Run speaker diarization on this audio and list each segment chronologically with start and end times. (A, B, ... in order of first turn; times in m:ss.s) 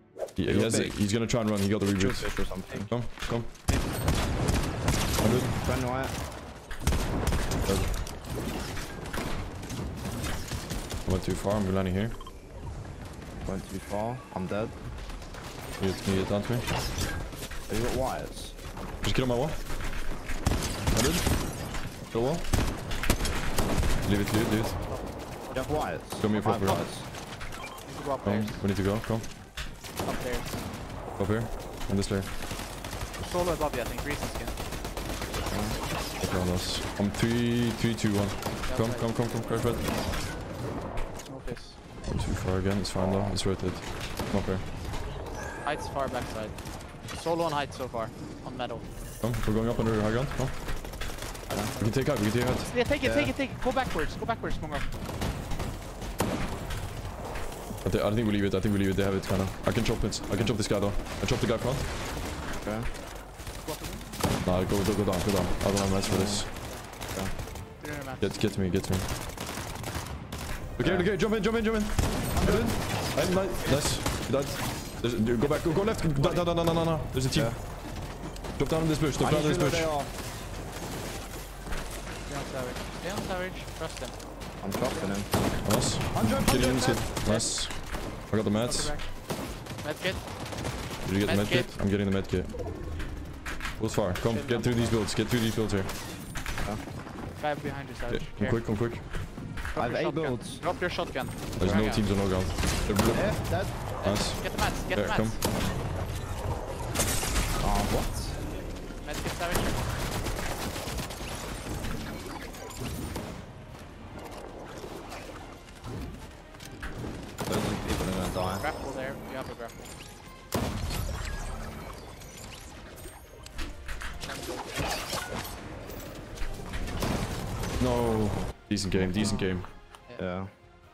0:00.4-0:03.5 A
0:00.5-0:00.9 B
0:02.0-0:02.9 B
0:03.7-0:03.9 C
0:05.2-0:05.5 A
0:05.5-0:06.1 B
0:07.7-0:07.9 A
0:11.1-0:12.2 A
0:13.5-0:14.8 B
0:15.8-0:16.6 A
0:17.7-0:18.6 B
0:19.0-0:19.6 A
0:20.9-0:21.3 A
0:22.1-0:22.4 A
0:24.0-0:24.8 A
0:24.8-0:25.8 C
0:25.6-0:27.1 B
0:26.2-0:26.8 A
0:27.9-0:28.6 C
0:28.2-0:29.3 A
0:30.0-0:30.6 C
0:31.2-0:32.3 A
0:33.2-0:34.6 C
0:35.5-0:35.8 B
0:36.2-0:39.9 A
0:38.7-0:39.1 C
0:41.2-0:41.8 C
0:42.1-0:44.6 A
0:43.0-0:43.4 B
0:45.6-0:46.6 C
0:47.1-0:48.9 C
0:49.2-0:50.6 A
0:51.5-0:54.9 C
0:51.8-0:52.7 A
0:53.0-0:53.3 B
0:57.8-1:01.9 A
1:02.6-1:02.9 B
1:03.6-1:04.3 C
1:04.4-1:06.5 A
1:06.0-1:06.4 B
1:07.8-1:08.3 C
1:08.2-1:09.1 A
1:10.8-1:17.6 A
1:10.8-1:11.1 B
1:12.3-1:13.1 C
1:15.4-1:16.5 C
1:17.3-1:17.6 B
1:18.6-1:19.9 A
1:19.2-1:20.1 B
1:22.3-1:24.2 C
1:24.6-1:25.3 B
1:24.9-1:25.2 C
1:25.6-1:29.0 A
1:26.2-1:27.0 B
1:28.5-1:29.1 C
1:29.8-1:30.3 C
1:31.0-1:32.5 A
1:31.2-1:31.7 C
1:33.8-1:35.9 A
1:34.3-1:35.0 C
1:37.4-1:38.6 C
1:38.1-1:39.1 A
1:39.7-1:42.1 C
1:39.8-1:40.6 B
1:41.6-1:43.4 A
1:43.1-1:43.8 B
1:44.0-1:45.4 C
1:44.0-1:45.4 A
1:47.6-1:48.4 B
1:49.0-1:49.8 C
1:57.5-1:58.6 B
1:58.6-1:59.9 C
2:04.2-2:05.0 C
2:07.8-2:09.7 A
2:08.9-2:09.5 B
2:09.2-2:09.6 C
2:10.2-2:10.5 B